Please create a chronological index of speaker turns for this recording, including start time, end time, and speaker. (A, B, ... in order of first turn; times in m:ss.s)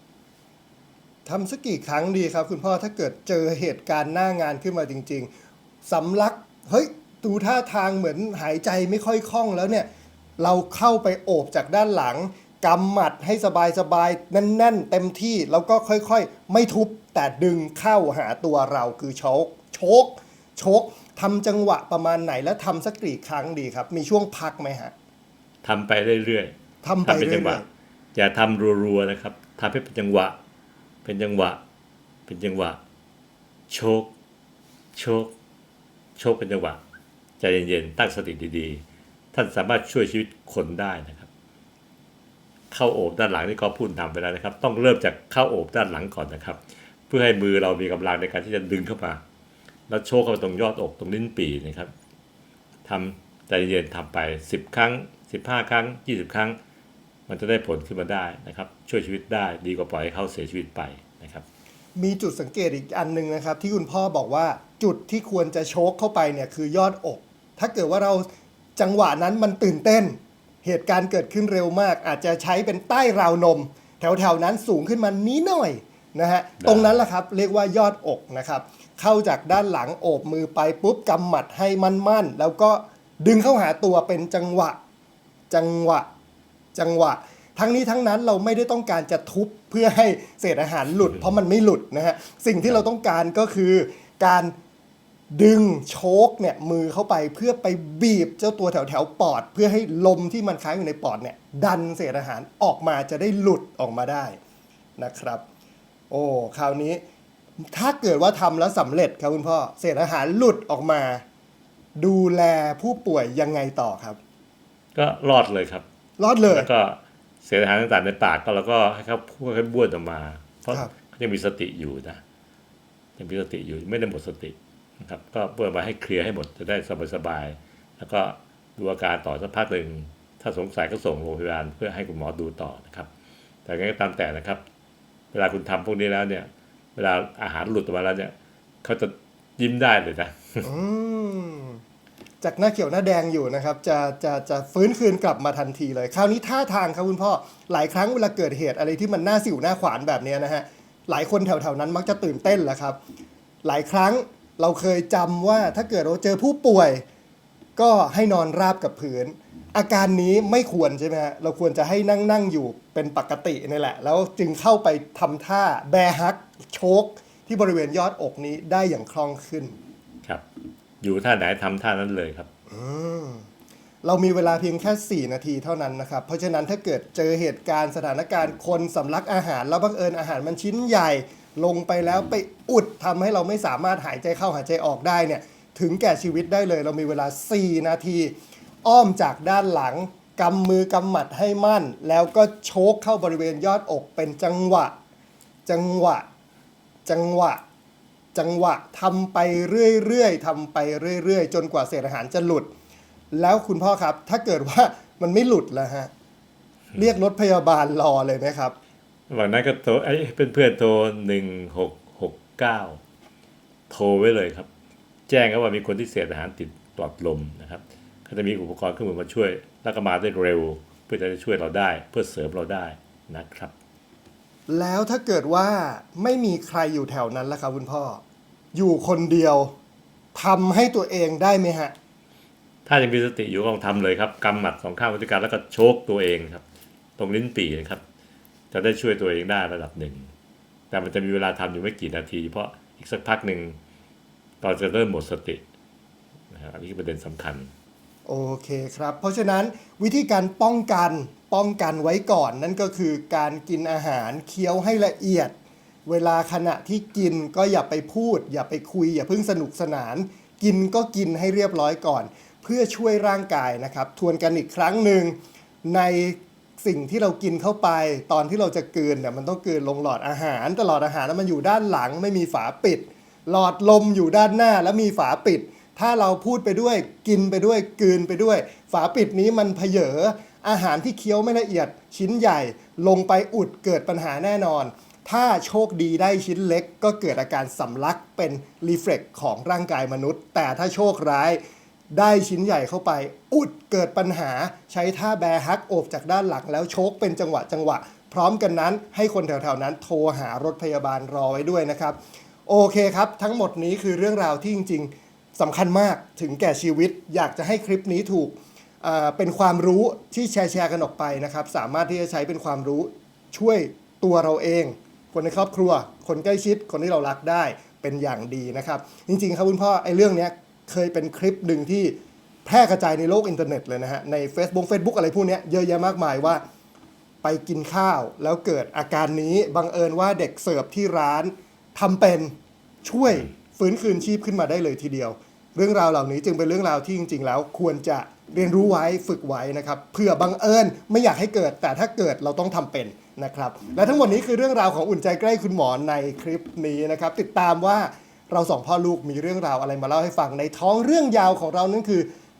0:01.3-0:05.3 A
0:05.8-0:24.9 A
0:25.6-0:26.5 B
0:26.8-0:27.7 A
0:27.0-0:27.6 B
0:28.2-0:30.4 B
0:31.0-0:31.6 B
0:32.3-0:32.8 B
0:33.7-0:34.1 B
0:35.0-0:35.3 B
0:36.2-0:36.8 B
0:37.4-0:38.8 B
0:39.3-0:41.3 B
0:42.7-0:49.2 B
0:49.9-0:51.9 B
0:52.9-0:56.6 B
0:57.3-1:01.4 B
1:02.0-1:24.8 A
1:16.6-1:17.0 B
1:25.5-1:26.1 A
1:26.8-1:34.5 A
1:35.3-1:44.4 A
1:45.0-1:45.4 A
1:46.1-1:47.0 A
1:47.6-1:51.2 A
1:52.0-1:54.2 A
1:55.0-1:55.8 B
1:56.2-1:56.7 A
1:56.5-2:02.2 B
2:03.2-2:13.1 B
2:13.6-2:14.6 B
2:15.3-2:18.3 B
2:18.8-2:20.7 B
2:20.6-2:21.8 A
2:22.4-2:33.0 A
2:33.6-2:37.0 A
2:37.8-2:49.8 A
2:51.0-2:52.5 B
2:52.7-2:53.5 A
2:54.0-3:14.9 A
3:15.7-3:16.3 A
3:17.1-3:17.6 A
3:18.4-3:22.7 A
3:23.3-3:26.1 A
3:27.0-3:28.8 A
3:29.3-3:33.0 B
3:33.9-3:34.7 B
3:35.3-3:43.7 B
3:44.7-3:48.2 A
3:48.7-3:49.7 A
3:50.4-3:51.9 A
3:52.9-3:56.6 B
3:57.2-3:58.0 B
3:58.7-4:00.3 B
4:00.9-4:03.8 B
4:04.6-4:05.6 B
4:06.5-4:07.7 B
4:08.3-4:15.6 A
4:16.1-4:51.6 A
4:52.1-5:22.2 A
5:22.7-5:26.6 A
5:27.4-5:52.3 A